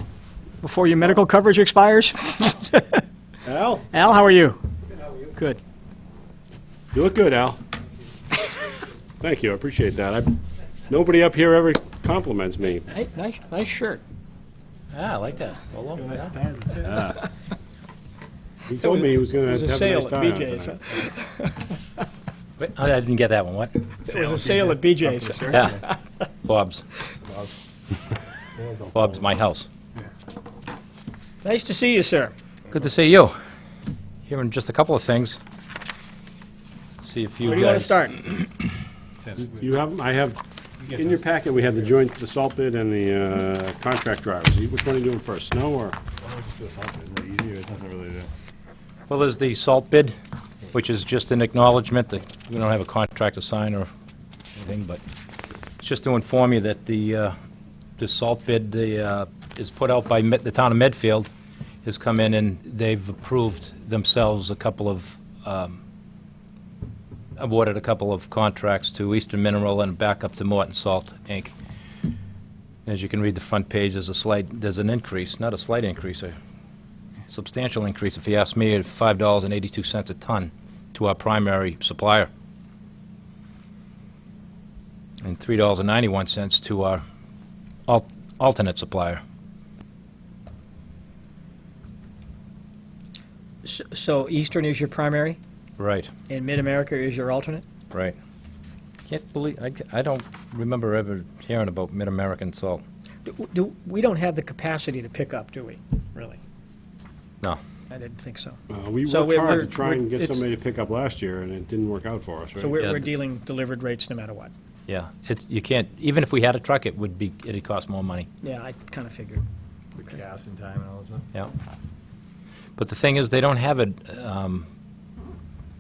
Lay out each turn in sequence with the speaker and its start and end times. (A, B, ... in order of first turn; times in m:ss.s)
0:00.6-0:03.0 A
0:03.4-0:03.9 B
0:03.9-0:04.6 A
0:05.3-0:05.6 A
0:06.9-0:07.6 B
0:09.2-0:12.9 B
0:12.9-0:14.0 A
0:14.9-0:16.4 C
0:16.3-0:16.9 D
0:16.8-0:17.2 B
0:18.7-0:20.8 B
0:18.8-0:21.8 A
0:22.6-0:23.9 C
0:24.0-0:26.0 A
0:24.3-0:25.7 D
0:25.5-0:25.8 C
0:26.4-0:26.8 C
0:27.2-0:27.6 D
0:28.5-0:29.0 D
0:28.9-0:29.7 C
0:31.4-0:32.3 A
0:32.7-0:33.4 C
0:34.3-0:35.4 C
0:37.0-0:38.4 C
0:37.4-0:38.2 A
0:39.4-0:46.0 B
0:46.2-0:48.3 D
0:49.1-0:50.1 C
0:50.7-0:53.9 C
0:54.6-0:55.0 C
0:55.8-0:57.3 C
0:58.0-1:01.3 C
1:01.8-1:05.8 C
1:07.4-1:11.5 C
1:12.9-1:16.4 C
1:17.3-1:22.3 C
1:25.2-1:27.0 C
1:27.9-1:29.2 C
1:33.6-1:35.4 A
1:35.8-1:36.1 C
1:36.3-1:37.6 A
1:39.1-1:42.8 C
1:43.3-1:46.4 A
1:47.9-1:50.4 A
1:48.7-1:52.9 B
1:52.6-1:54.5 A
1:54.9-1:58.3 C
1:58.4-1:59.4 A
2:00.0-2:01.3 D
2:02.8-2:04.7 C